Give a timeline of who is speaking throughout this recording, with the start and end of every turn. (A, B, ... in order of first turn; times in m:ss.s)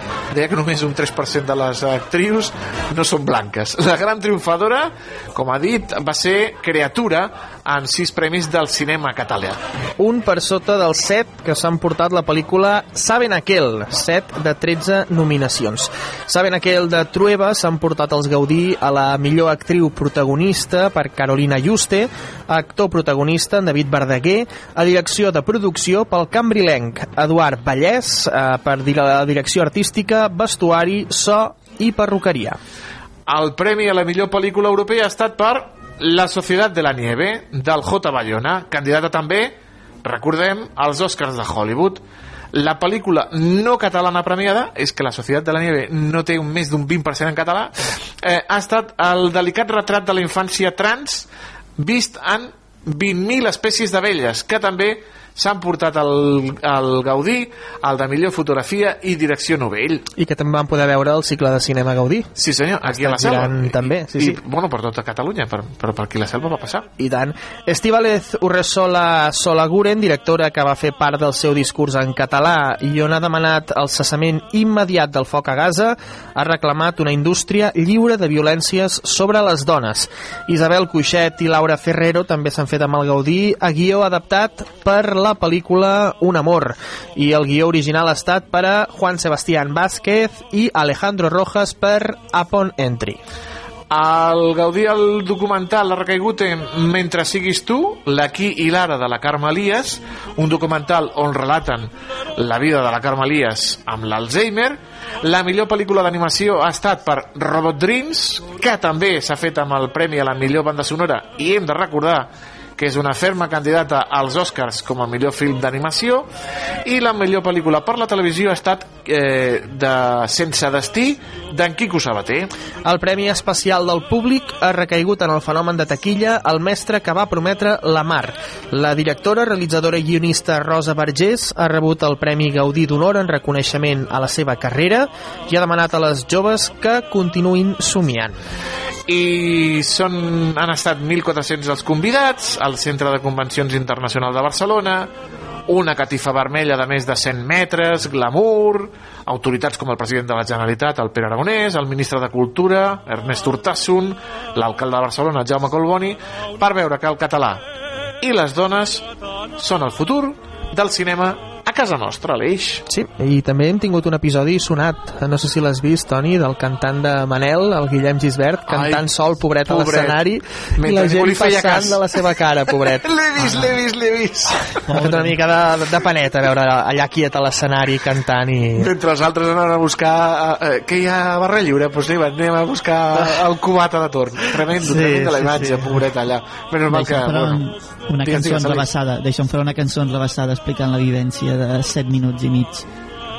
0:00.3-0:09.6 A
0:10.0-0:32.6 B
0:33.3-0:42.0 A
0:42.5-1:00.1 A
1:00.2-1:02.3 B
1:02.4-1:06.9 A
1:02.8-1:04.4 B
1:07.0-1:33.2 B
1:33.9-1:56.3 A
1:56.8-2:02.5 A
2:02.8-2:18.4 B
2:19.1-2:25.1 A
2:25.7-2:37.6 A
2:38.2-2:39.0 A
2:39.6-2:42.8 A
2:42.9-2:53.7 B
2:48.6-2:49.1 A
2:49.6-2:50.2 A
2:50.8-2:52.2 A
2:52.8-2:54.6 A
2:54.9-2:58.9 B
2:55.0-2:55.3 C
2:58.8-3:07.6 A
3:04.9-3:05.8 C
3:06.9-3:12.8 C
3:08.2-3:08.9 A